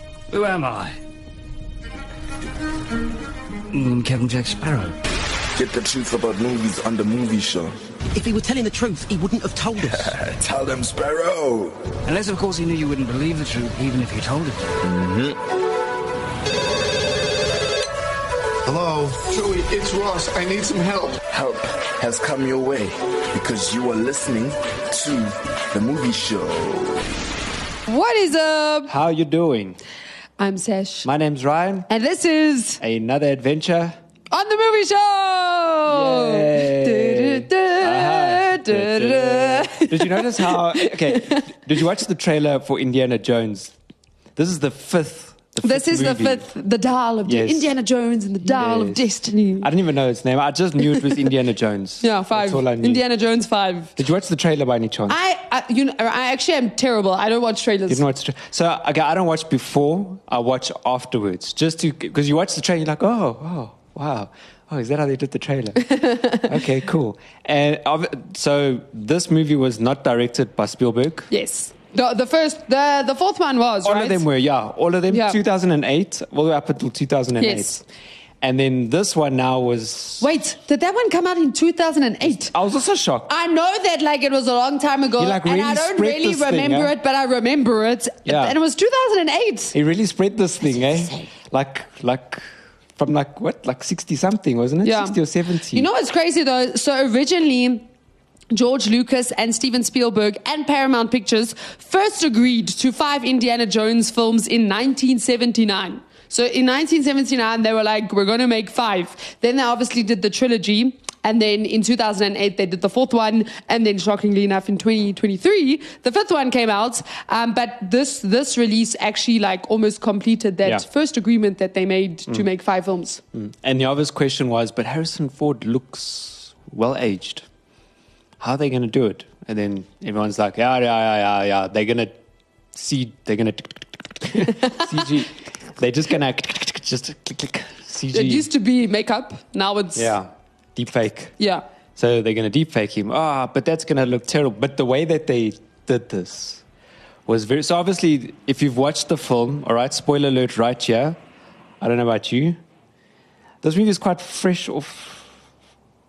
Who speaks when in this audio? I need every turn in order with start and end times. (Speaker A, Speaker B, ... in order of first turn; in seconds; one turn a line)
Speaker A: 0.3-1.0
Speaker A: 3.7-4.9
Speaker B: 5.5-7.8
Speaker C: 8.1-10.1
Speaker B: 9.9-11.8
Speaker A: 12.0-14.8
Speaker B: 14.8-15.4
Speaker D: 18.6-21.2
Speaker B: 21.3-27.1
Speaker E: 27.9-28.9
Speaker F: 28.9-29.8
Speaker E: 30.4-31.1
Speaker F: 31.0-31.9
Speaker E: 31.9-32.8
Speaker F: 32.8-34.0
Speaker E: 34.3-41.5
Speaker F: 35.9-43.7
Speaker F: 44.4-46.5
Speaker E: 45.6-49.7
Speaker F: 47.2-47.7
Speaker F: 48.4-49.0
Speaker F: 49.6-53.0
Speaker E: 52.0-54.0
Speaker F: 54.0-55.2
Speaker E: 55.1-58.0
Speaker F: 57.9-71.3
Speaker E: 65.8-66.5
Speaker E: 71.3-74.2
Speaker F: 73.8-77.8
Speaker E: 75.1-75.4
Speaker E: 77.4-77.8
Speaker F: 78.4-80.3
Speaker E: 80.2-82.5
Speaker F: 82.2-83.3
Speaker E: 83.3-89.7
Speaker F: 85.2-86.9
Speaker F: 88.2-88.5
Speaker F: 89.7-92.4
Speaker F: 93.0-95.9
Speaker E: 94.8-95.2
Speaker E: 95.7-97.8
Speaker E: 98.5-123.2
Speaker F: 123.3-127.4
Speaker F: 128.4-132.2
Speaker F: 132.7-138.5
Speaker E: 134.6-134.9
Speaker E: 138.1-140.1
Speaker F: 139.9-141.3
Speaker E: 141.4-141.6
Speaker F: 141.9-146.6
Speaker F: 147.3-151.2
Speaker F: 151.8-152.6
Speaker F: 153.6-155.3